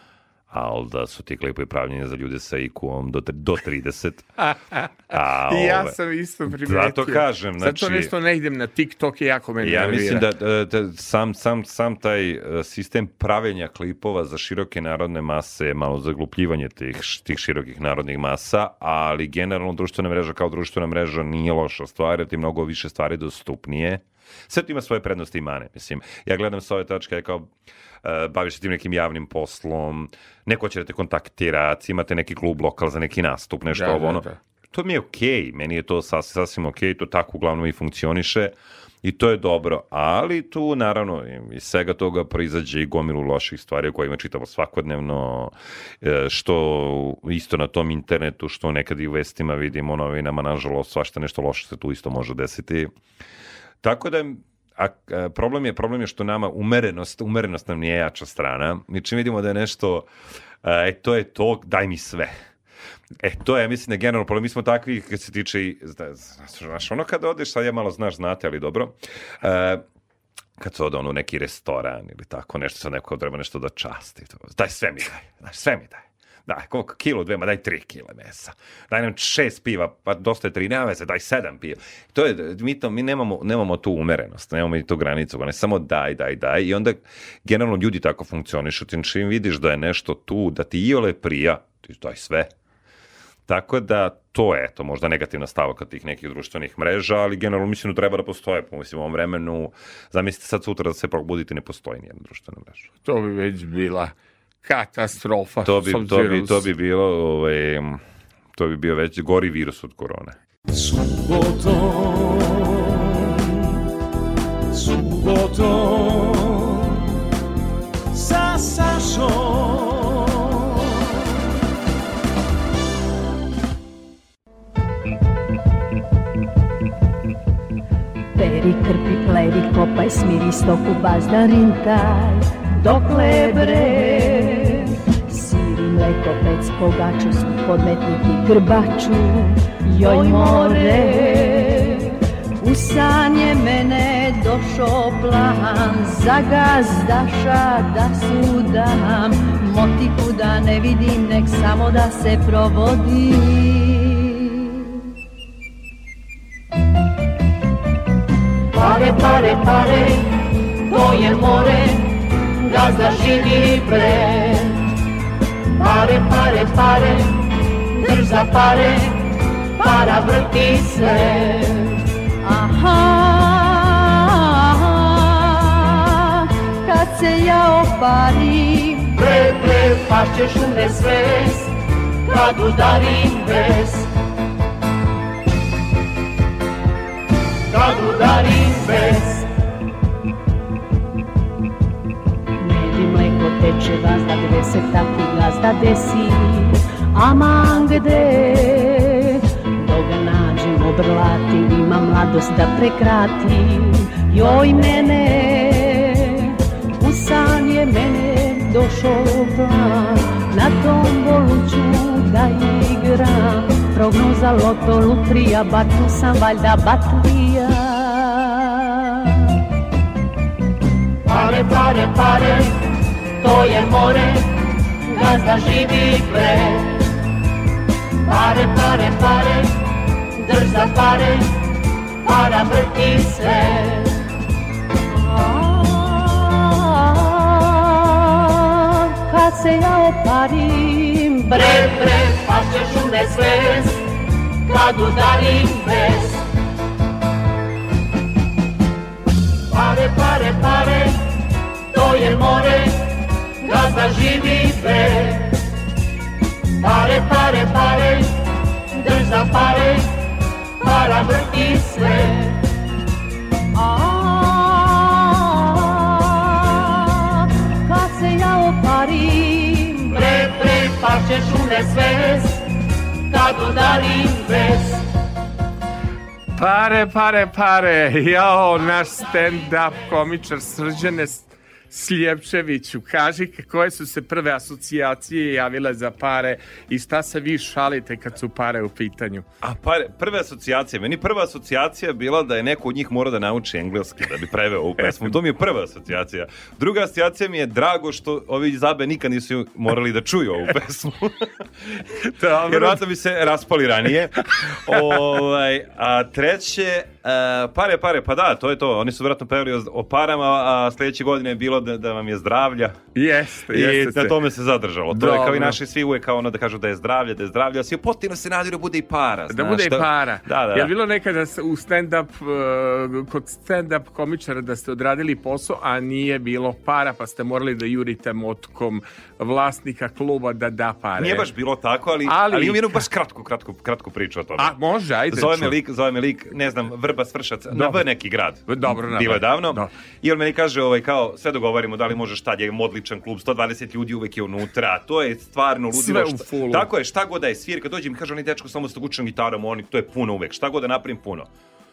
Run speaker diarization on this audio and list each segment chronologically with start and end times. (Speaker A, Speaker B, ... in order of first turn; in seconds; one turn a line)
Speaker A: 0.5-4.3
Speaker B: 4.4-10.3
Speaker A: 5.1-6.0
Speaker A: 6.5-8.1
Speaker A: 9.6-27.5
Speaker A: 28.0-52.9
Speaker B: 33.7-34.4
Speaker A: 53.8-60.1
Speaker A: 60.6-62.4
Speaker A: 63.2-69.8
Speaker A: 70.6-92.5
Speaker A: 93.5-102.9
Speaker B: 103.0-106.7
Speaker A: 105.7-108.0
Speaker A: 108.5-110.4
Speaker C: 110.7-113.8
Speaker C: 114.7-117.1
Speaker C: 118.1-120.8
Speaker D: 128.4-154.4
Speaker E: 158.7-160.3
Speaker E: 160.9-164.8
Speaker E: 165.8-167.4
Speaker E: 167.9-169.2
Speaker E: 169.8-172.0
Speaker D: 172.4-176.0
Speaker D: 176.8-179.1
Speaker E: 179.1-181.7
Speaker E: 182.3-184.1
Speaker E: 187.7-189.5
Speaker D: 192.6-218.7
Speaker E: 221.3-222.8
Speaker E: 223.4-224.5
Speaker E: 225.1-227.0
Speaker E: 228.3-229.7
Speaker E: 230.4-231.6
Speaker E: 232.2-234.2
Speaker D: 235.1-241.6
Speaker E: 241.5-244.0
Speaker E: 244.7-246.4
Speaker E: 249.7-251.2
Speaker E: 251.9-253.1
Speaker E: 253.6-255.6
Speaker E: 256.8-258.3
Speaker E: 258.9-260.1
Speaker E: 260.8-262.6
Speaker D: 263.8-266.6
Speaker D: 267.9-270.1
Speaker E: 270.1-272.6
Speaker E: 273.3-275.1
Speaker B: 276.6-289.4
Speaker A: 289.6-313.0
Speaker B: 302.4-303.0
Speaker B: 313.1-314.4
Speaker A: 313.7-320.9
Speaker B: 315.1-315.8
Speaker B: 319.5-331.5
Speaker A: 331.2-334.8
Speaker B: 332.3-333.1
Speaker B: 334.6-335.8
Speaker A: 335.3-351.5
Speaker B: 337.7-338.0
Speaker B: 338.7-339.9
Speaker B: 345.9-346.9